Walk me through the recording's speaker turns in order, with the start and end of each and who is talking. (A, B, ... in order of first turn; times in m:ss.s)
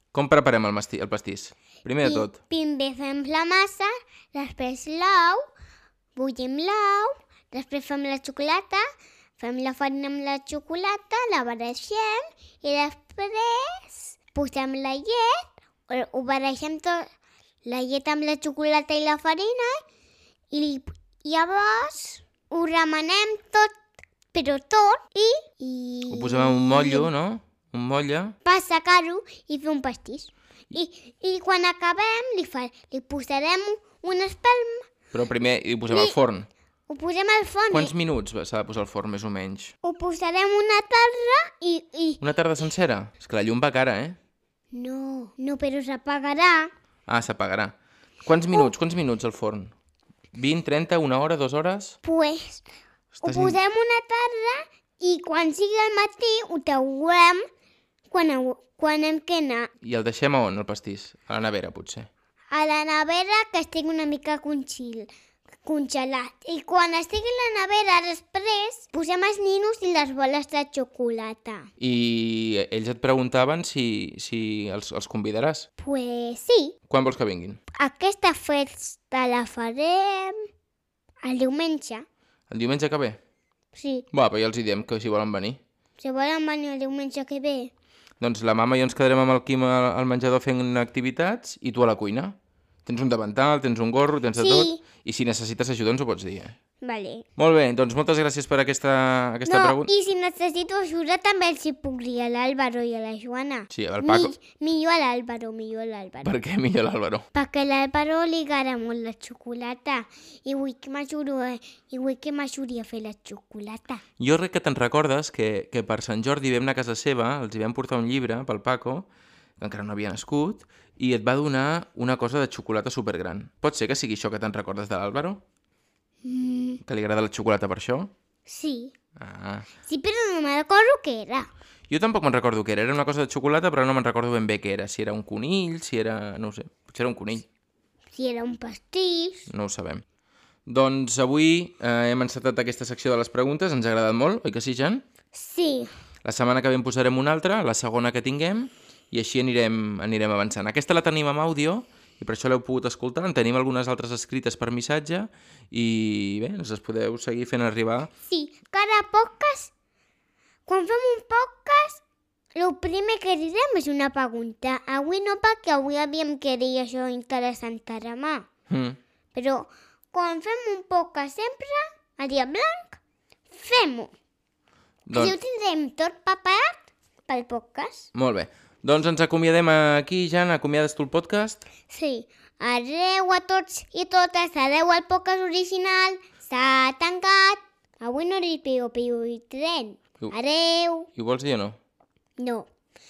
0:00.1-0:02.4 A
0:02.0-0:05.4 B
0:06.2-0:08.8 B
0:09.4-0:17.0 B
0:17.6-0:19.8 B
0:20.5-0:23.7 B
0:24.3-0:27.1 B
0:26.1-0:28.4 A
0:28.4-0:34.9 B
0:35.1-0:36.5 A
0:35.9-0:36.1 B
0:36.9-0:37.9 B
0:37.7-0:39.7 A
0:39.8-0:42.2 B
0:42.2-0:44.2 A
0:44.7-0:46.7 B
0:47.1-0:49.7 A
0:50.3-0:52.0 A
0:52.0-0:52.6 B
0:53.1-0:53.6 A
0:53.2-0:57.4 B
0:58.1-0:59.7 B
0:59.8-1:02.1 A
1:02.5-1:05.1 B
1:05.6-1:11.7 B
1:11.8-1:15.6 A
1:15.8-1:16.8 B
1:16.9-1:17.6 A
1:17.8-1:20.5 B
1:21.2-1:22.0 B
1:22.5-1:23.2 A
1:23.7-1:24.0 B
1:24.1-1:25.6 A
1:26.0-1:27.7 B
1:28.2-1:36.5 A
1:34.4-1:34.8 B
1:36.8-1:37.2 B
1:37.4-1:39.9 A
1:39.4-1:46.4 B
1:43.7-1:44.3 A
1:46.2-1:47.2 A
1:47.3-1:54.0 B
1:54.2-2:05.4 A
2:06.2-2:06.8 B
2:06.8-2:08.1 A
2:08.4-2:08.9 B
2:09.2-2:09.6 A
2:09.8-2:11.5 B
2:11.9-2:17.5 A
2:18.1-2:19.5 B
2:19.5-2:20.0 A
2:20.7-2:25.0 A
2:25.3-2:25.9 B
2:26.2-2:38.1 A
2:38.2-2:39.7 B
2:40.6-2:42.0 B
2:42.6-2:48.5 B
2:48.7-2:49.0 A
2:49.3-2:54.1 B
2:55.1-2:55.4 A
2:55.1-2:58.1 B
2:58.1-3:01.6 A
3:01.9-3:11.1 B
3:11.1-3:11.8 A
3:12.4-3:12.7 B